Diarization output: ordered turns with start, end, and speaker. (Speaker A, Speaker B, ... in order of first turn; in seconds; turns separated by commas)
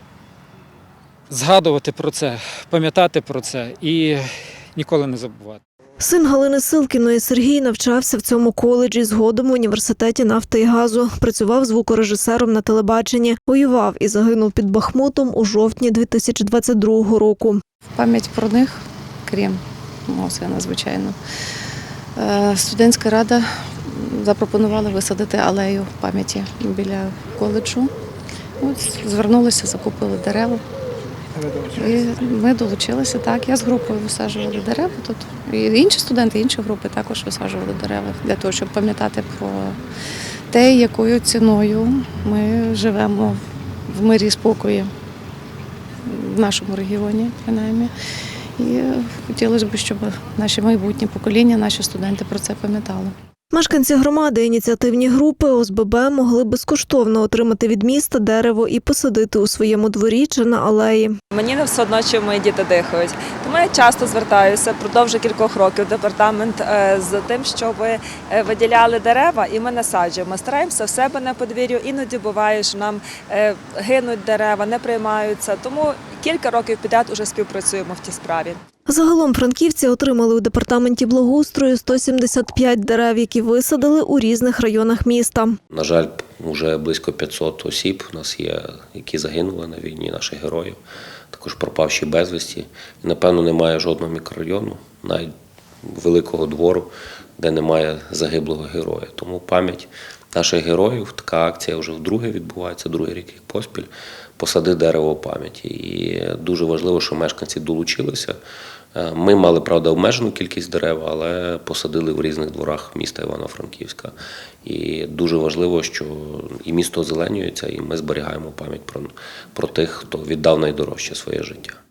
Speaker A: 1.3-5.6, Speaker B: 6.0-17.6, Speaker C: 17.9-21.1, Speaker C: 22.1-27.9, Speaker C: 28.6-30.6, Speaker C: 31.7-39.8, Speaker C: 40.5-43.4, Speaker C: 43.9-44.9, Speaker C: 46.0-47.9, Speaker C: 48.6-53.1, Speaker B: 53.5-61.1, Speaker D: 61.3-78.6, Speaker B: 78.9-85.5, Speaker E: 85.7-90.8, Speaker E: 91.3-95.3, Speaker E: 95.8-108.4, Speaker E: 108.9-121.8